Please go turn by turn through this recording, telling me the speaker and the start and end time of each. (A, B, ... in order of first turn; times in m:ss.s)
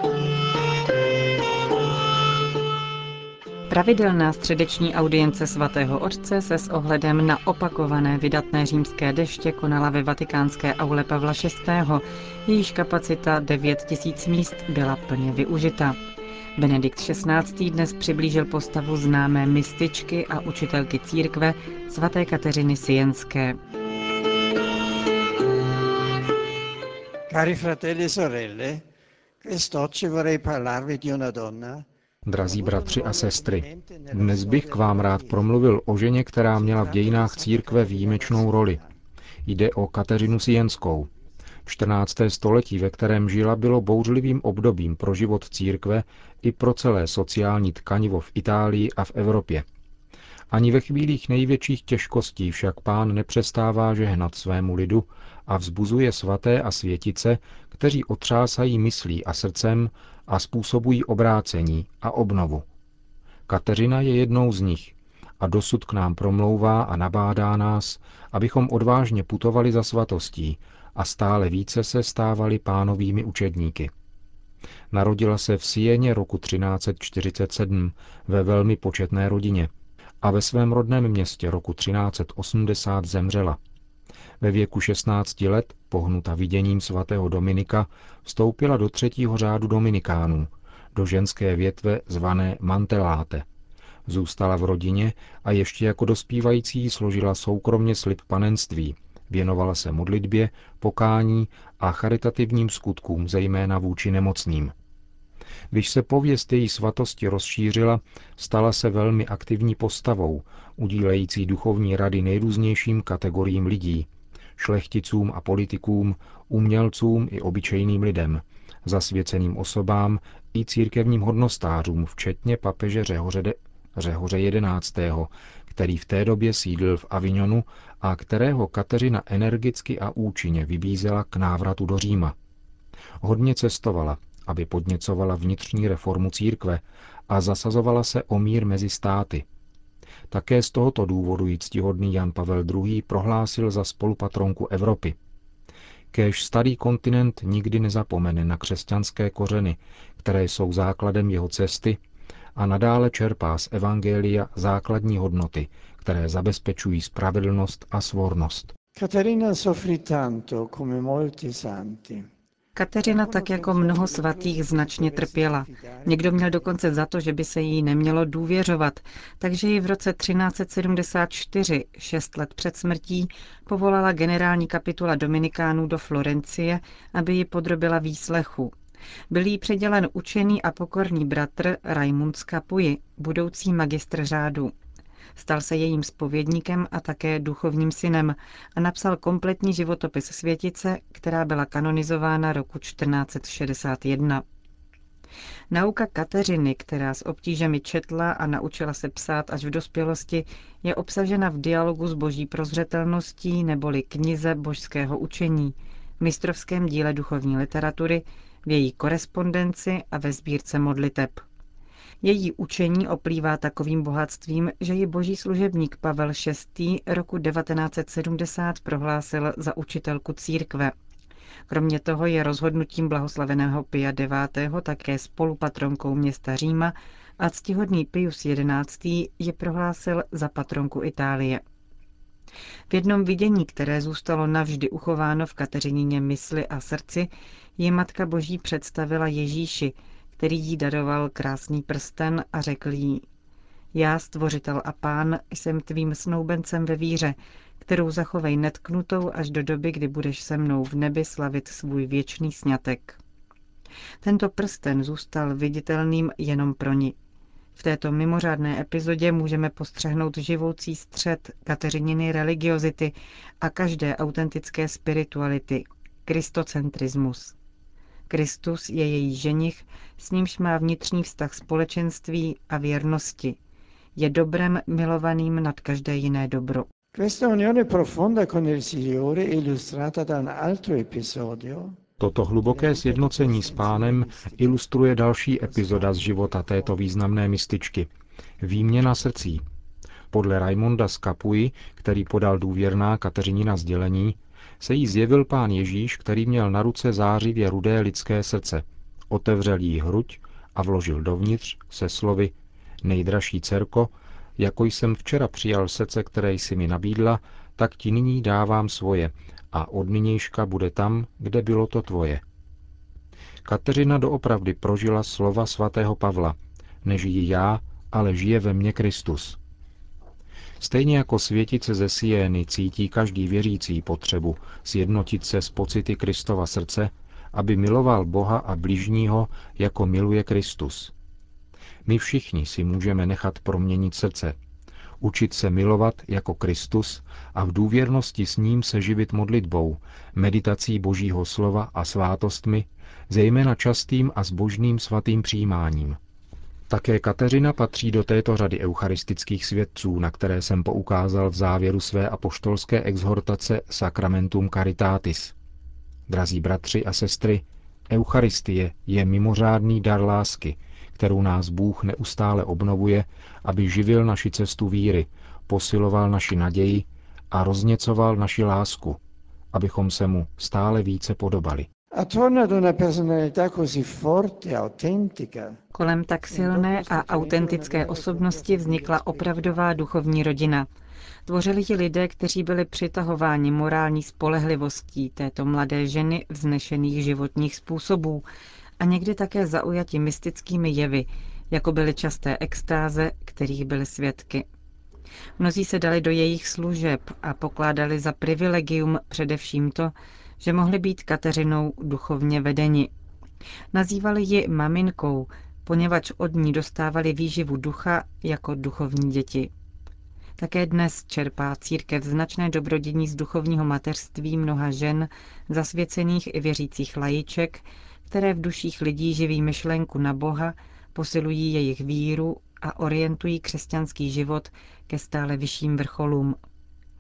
0:03.7-0:16.0 A
0:16.6-0:23.6 A
0:27.3-0:28.8 B
0:29.4-0:31.8 B
0:32.2-0:38.8 C
0:32.4-0:35.4 B
0:36.5-0:38.9 B
0:39.5-0:41.1 C
0:41.6-0:49.7 C
0:50.5-1:02.6 C
1:03.5-1:13.9 C
1:14.9-1:19.7 C
1:20.2-1:23.6 C
1:24.4-1:33.4 C
1:34.1-1:44.7 C
1:45.7-2:12.4 C
2:13.2-2:19.5 C
2:20.3-2:25.2 C
2:26.1-2:32.0 C
2:32.6-2:38.7 C
2:39.0-2:42.3 B
2:42.8-2:58.7 A
2:43.0-2:46.7 B
2:59.3-3:04.7 A
3:05.4-3:14.4 A
3:15.7-3:31.4 A
3:32.2-3:41.0 A
3:41.7-3:51.6 A
3:52.9-4:03.3 A
4:03.9-4:13.2 A
4:14.2-4:17.2 A
4:17.8-4:27.6 A
4:28.3-4:33.6 A
4:34.2-4:36.9 A
4:37.1-4:42.0 B
4:42.2-4:48.1 C
4:42.6-4:44.8 B
4:45.6-4:47.0 B
4:48.6-4:49.6 C
4:50.3-5:12.4 C
5:13.6-5:19.6 C
5:20.8-5:31.1 C
5:32.1-5:34.6 C
5:35.2-5:46.2 C
5:46.9-5:55.6 C
5:56.3-6:09.2 C
6:09.7-6:11.9 C
6:12.1-6:15.8 B
6:15.9-6:20.9 A
6:16.5-6:19.9 B
6:21.4-6:28.4 A
6:29.0-6:34.7 A
6:35.6-6:43.1 A
6:43.9-6:49.7 A
6:50.6-7:06.6 A